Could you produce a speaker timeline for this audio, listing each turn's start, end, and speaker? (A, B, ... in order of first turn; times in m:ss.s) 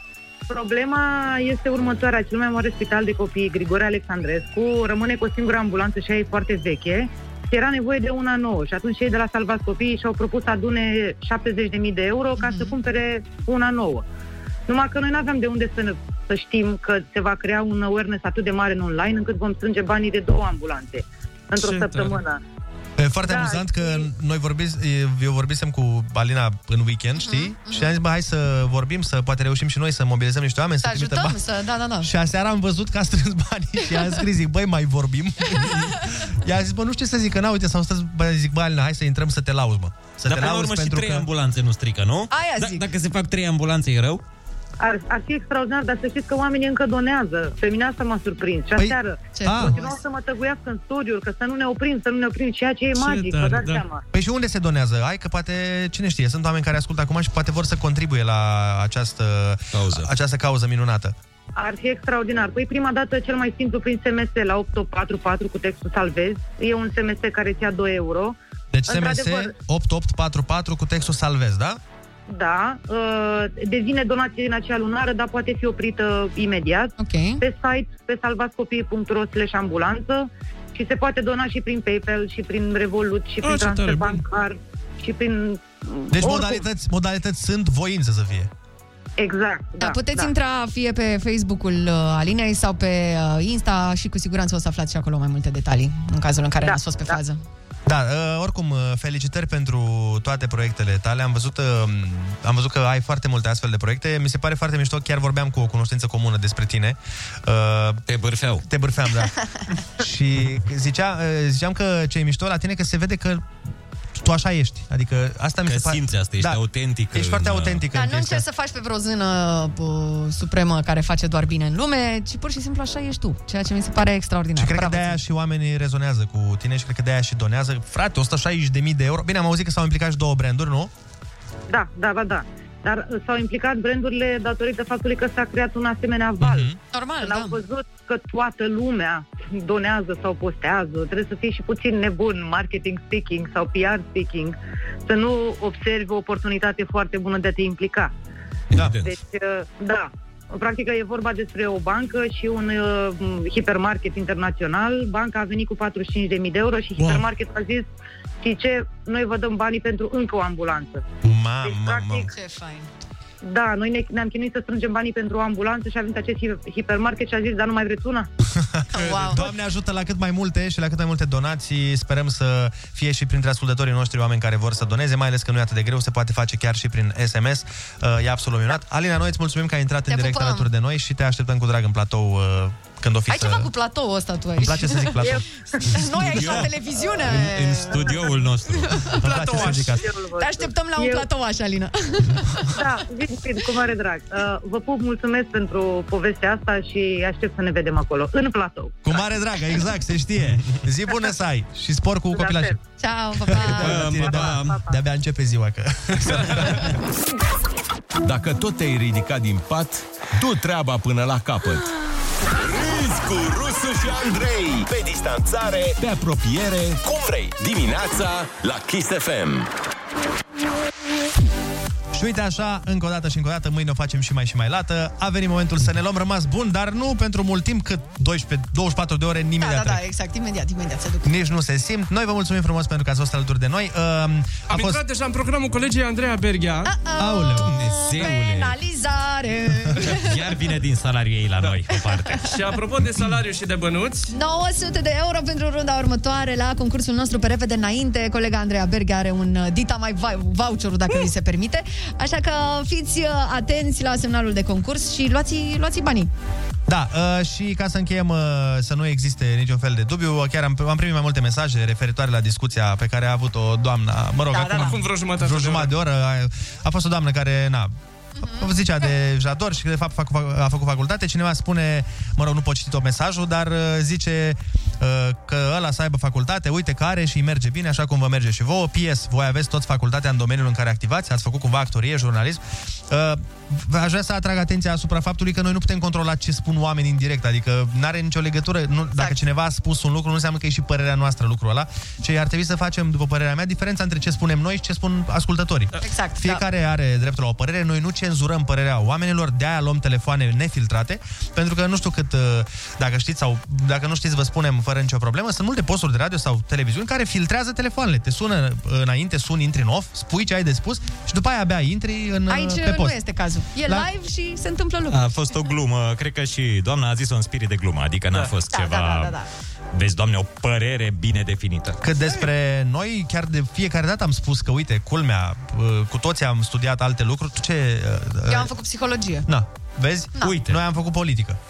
0:00.5-0:14.0 A
0:12.4-0:12.8 B
0:14.7-0:22.4 A
0:21.6-0:22.2 C
0:23.0-0:31.4 D
0:23.2-0:24.0 A
0:27.2-0:27.9 B
0:30.8-0:32.1 B
0:32.0-0:41.3 D
0:40.3-0:44.2 E
0:42.3-0:42.8 B
0:44.8-0:54.0 A
0:48.8-0:49.8 D
0:49.3-0:49.9 B
0:52.9-0:53.8 C
0:54.1-1:01.1 D
0:59.7-1:00.1 E
1:01.6-1:08.4 A
1:08.7-1:11.8 D
1:08.9-1:09.5 A
1:12.3-1:26.6 A
1:17.0-1:17.4 B
1:23.4-1:24.2 C
1:26.1-1:28.5 D
1:29.2-1:30.3 A
1:29.8-1:37.4 B
1:36.6-1:37.1 A
1:37.8-1:48.0 D
1:48.1-1:48.6 E
1:48.6-1:49.4 D
1:50.0-1:53.5 D
1:54.1-1:56.6 D
1:55.6-1:57.8 E
1:57.1-1:58.4 D
1:57.9-2:05.2 B
2:04.6-2:10.9 D
2:11.7-2:28.1 A
2:16.4-2:16.7 D
2:16.9-2:17.6 B
2:28.7-2:29.1 E
2:29.0-2:37.8 A
2:37.0-2:37.2 C
2:38.4-2:41.0 A
2:41.2-2:42.3 D
2:41.6-2:42.3 A
2:42.2-2:42.9 B
2:43.4-2:48.3 A
2:48.5-3:03.7 D
2:48.9-2:49.4 B
3:00.1-3:00.7 B
3:03.3-3:05.3 B
3:04.6-3:05.4 D
3:05.9-3:09.2 B
3:06.3-3:09.1 E
3:09.2-3:10.0 D
3:09.3-3:09.8 C
3:09.4-3:11.2 A
3:10.4-3:12.8 B
3:12.7-3:19.0 A
3:19.0-3:22.8 D
3:22.3-3:22.7 A
3:23.0-3:24.3 B
3:23.4-3:26.9 D
3:23.6-3:24.8 E
3:28.2-3:31.8 F
3:32.7-3:36.0 G
3:32.8-3:33.1 F
3:36.0-3:37.0 F
3:37.0-3:39.7 G
3:42.1-3:50.0 D
3:49.6-3:51.3 B
3:51.2-3:55.0 D
3:54.7-3:56.9 C
3:56.8-4:00.3 B
3:57.2-3:57.8 D
3:57.6-3:58.8 E
4:00.1-4:02.6 E
4:02.5-4:04.3 C
4:04.3-4:16.3 B
4:16.9-5:13.2 D
4:24.5-4:25.0 B
4:24.7-4:25.9 C
4:28.4-4:28.7 B
4:56.0-4:56.6 B
5:12.5-5:15.4 B
5:15.1-5:19.4 E
5:18.7-5:19.5 B
5:19.9-5:22.0 E
5:22.0-5:28.7 D
5:28.5-5:29.5 B
5:29.4-5:31.6 D
5:30.4-5:30.8 E